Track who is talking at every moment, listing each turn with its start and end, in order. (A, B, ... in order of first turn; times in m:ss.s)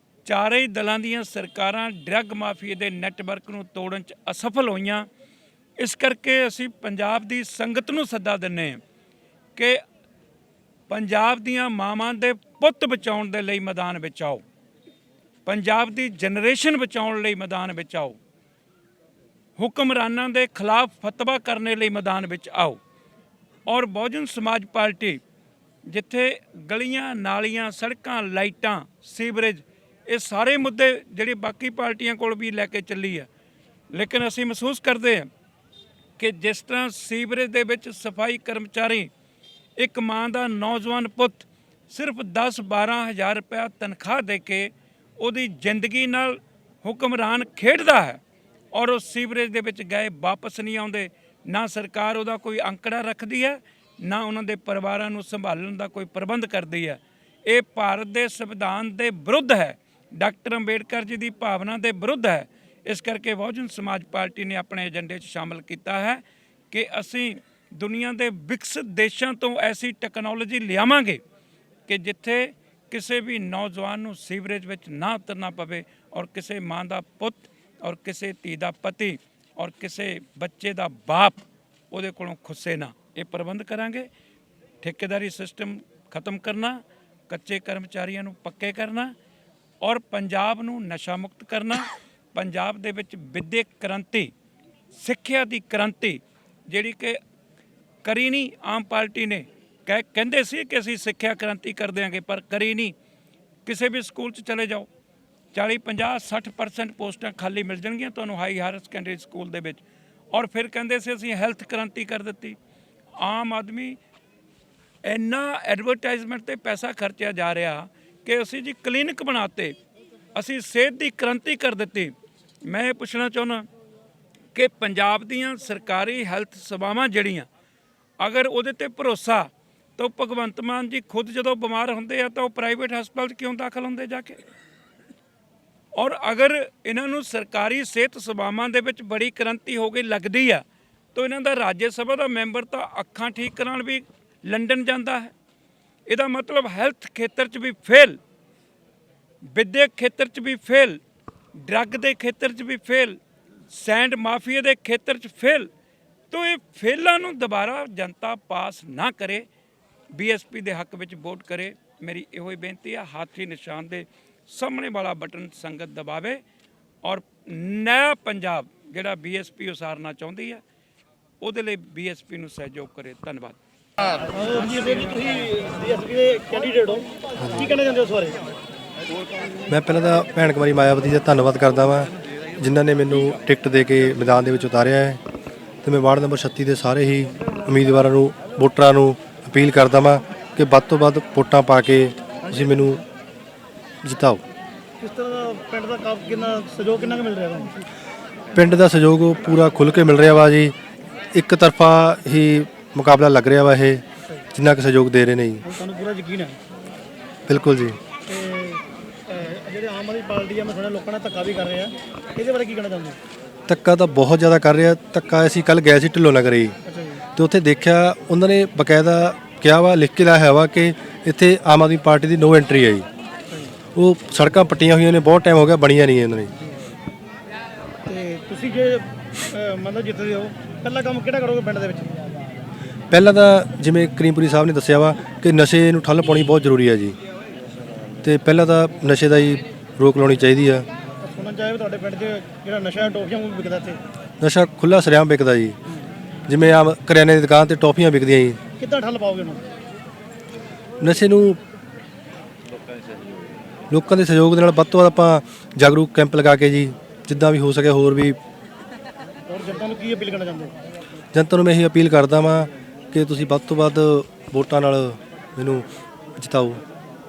0:00.2-0:05.1 A
0:05.8-0:08.8 A
0:09.5-0:09.8 A
0:10.9-0:14.4 A
0:15.4-0:18.2 A
0:19.6-0:22.8 A
0:23.6-0:25.2 A
0:25.8-0:33.3 A
0:33.9-0:35.3 A
0:36.2-0:39.1 A
0:39.8-0:48.2 A
0:48.7-1:11.2 A
1:11.9-1:24.1 A
1:24.8-1:29.1 A
1:29.8-1:34.3 A
1:34.9-1:37.2 A
1:38.0-1:42.9 A
1:43.6-1:44.9 A
1:45.5-1:52.6 A
1:53.2-1:54.0 A
1:55.0-1:59.8 A
2:00.3-2:03.7 A
2:04.5-2:07.5 A
2:08.2-2:14.4 A
2:15.9-2:25.3 A
2:26.1-2:28.2 A
2:29.4-2:31.0 A
2:31.5-2:33.2 A
2:33.7-2:35.7 A
2:36.3-2:39.5 A
2:40.1-2:46.4 A
2:47.0-2:50.6 A
2:51.4-2:53.6 A
2:54.3-2:58.4 B
2:57.4-2:57.7 C
2:59.7-3:05.2 C
3:05.8-3:13.0 C
3:14.0-3:14.4 C
3:15.0-3:17.8 B
3:18.5-3:20.7 C
3:21.3-3:24.0 C
3:24.5-3:25.6 C
3:25.6-3:26.6 B
3:27.5-3:28.0 C
3:28.3-3:33.2 B
3:33.7-3:36.8 C
3:36.9-3:37.2 B
3:37.4-3:43.1 C
3:43.9-3:46.5 C
3:48.1-3:52.1 B
3:53.1-3:57.2 C
3:58.2-4:00.8 C
4:01.2-4:04.0 B
4:04.4-4:05.8 C
4:06.5-4:08.6 C
4:08.8-4:09.6 B
4:11.0-4:11.6 C
4:13.9-4:18.4 C
4:19.5-4:20.7 B
4:21.3-4:26.8 C